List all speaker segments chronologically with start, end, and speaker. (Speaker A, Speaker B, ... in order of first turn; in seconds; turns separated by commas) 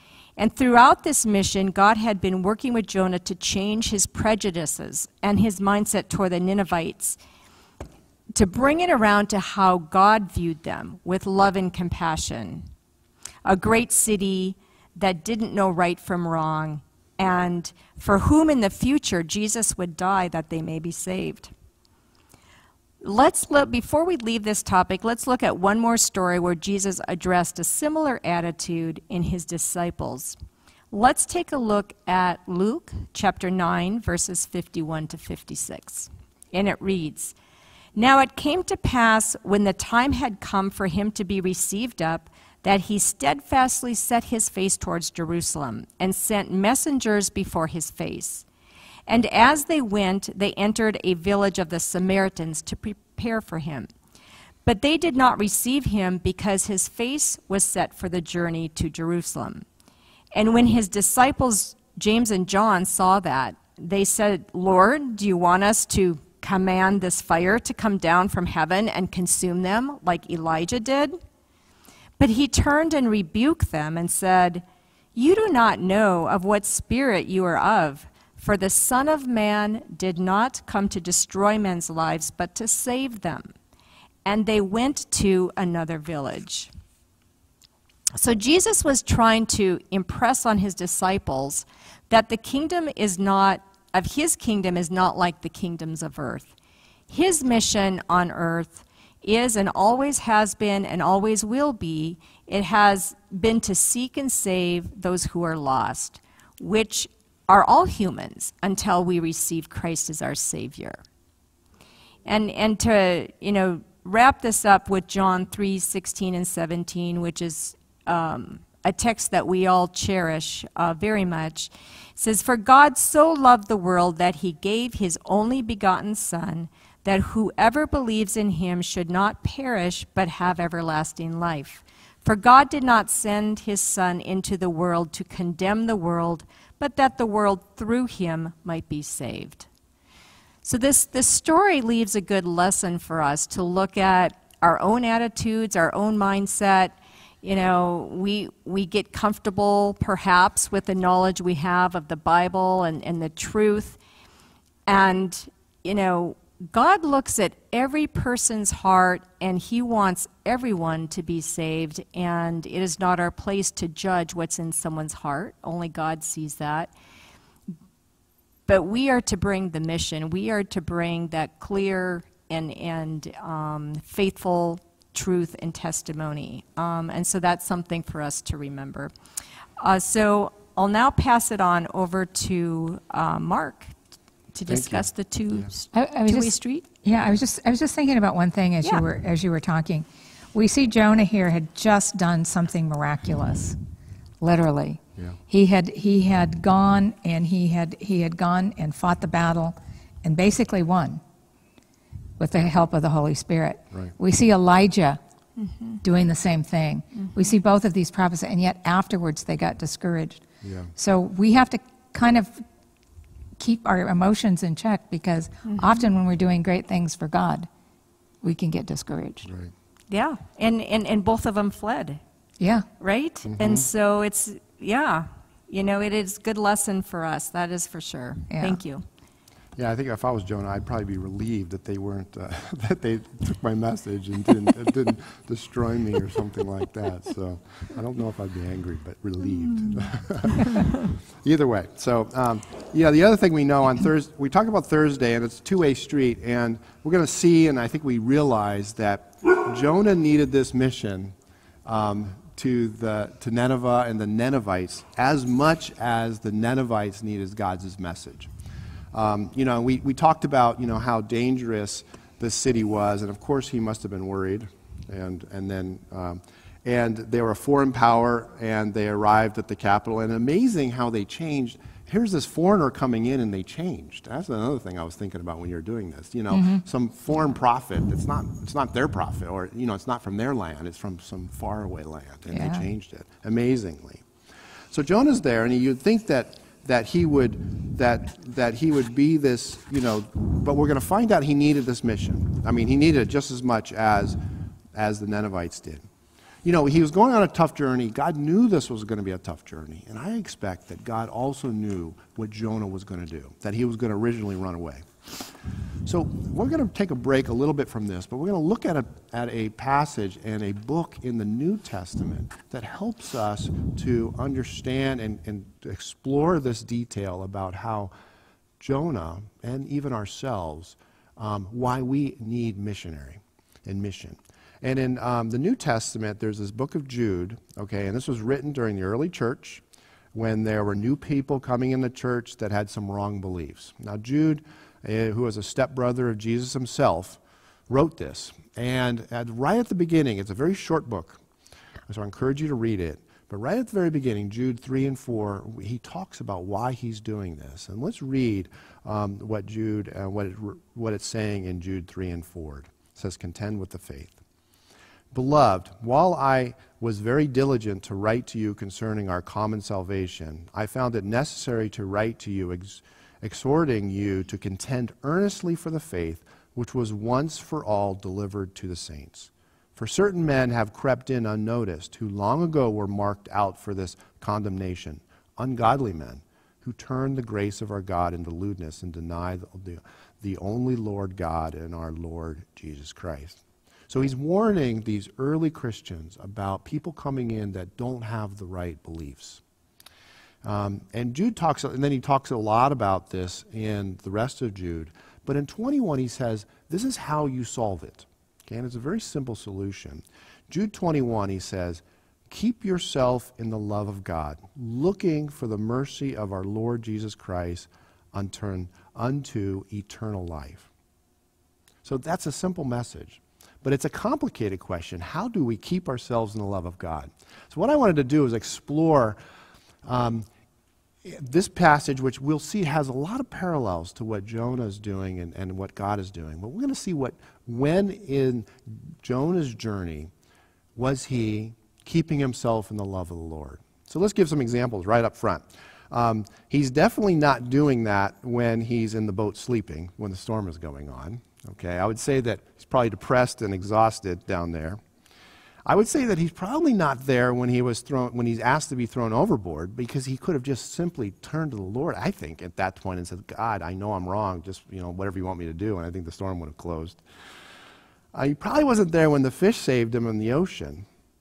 Speaker A: 0.4-7.2, Speaker A: 8.3-12.7, Speaker A: 13.4-21.5, Speaker A: 23.0-30.4, Speaker A: 30.9-37.3, Speaker A: 38.0-48.4, Speaker A: 49.1-53.9, Speaker A: 54.6-59.6, Speaker A: 60.3-71.2, Speaker A: 72.2-74.6, Speaker A: 75.1-83.5, Speaker A: 84.2-86.7, Speaker A: 88.2-96.5, Speaker A: 97.1-111.0, Speaker A: 112.2-139.7, Speaker A: 140.6-154.0, Speaker A: 154.9-166.9, Speaker A: 168.7-179.1, Speaker A: 179.8-183.9, Speaker A: 184.5-186.8, Speaker B: 184.7-185.7, Speaker C: 185.9-193.8, Speaker C: 194.4-201.2, Speaker C: 202.4-205.2, Speaker A: 205.6-206.0, Speaker C: 206.0-210.4, Speaker B: 210.6-210.9, Speaker C: 210.9-212.6, Speaker C: 213.6-217.7, Speaker A: 215.7-216.0, Speaker C: 218.4-219.5, Speaker B: 219.4-219.7, Speaker A: 220.1-222.2, Speaker C: 222.6-222.9, Speaker A: 223.0-229.0, Speaker B: 223.4-223.9, Speaker C: 228.5-228.8, Speaker B: 229.8-258.5, Speaker B: 259.1-284.2, Speaker C: 276.5-276.8, Speaker C: 282.5-282.8, Speaker B: 284.9-294.4, Speaker B: 294.9-296.0, Speaker B: 296.6-305.0, Speaker B: 306.0-318.1, Speaker B: 318.8-329.8, Speaker B: 330.3-341.4, Speaker B: 342.1-354.4, Speaker B: 355.3-389.6, Speaker B: 390.6-410.9, Speaker B: 412.0-419.4, Speaker B: 420.0-420.5, Speaker B: 421.2-430.3, Speaker B: 430.9-445.0, Speaker B: 445.9-457.2, Speaker B: 458.3-461.0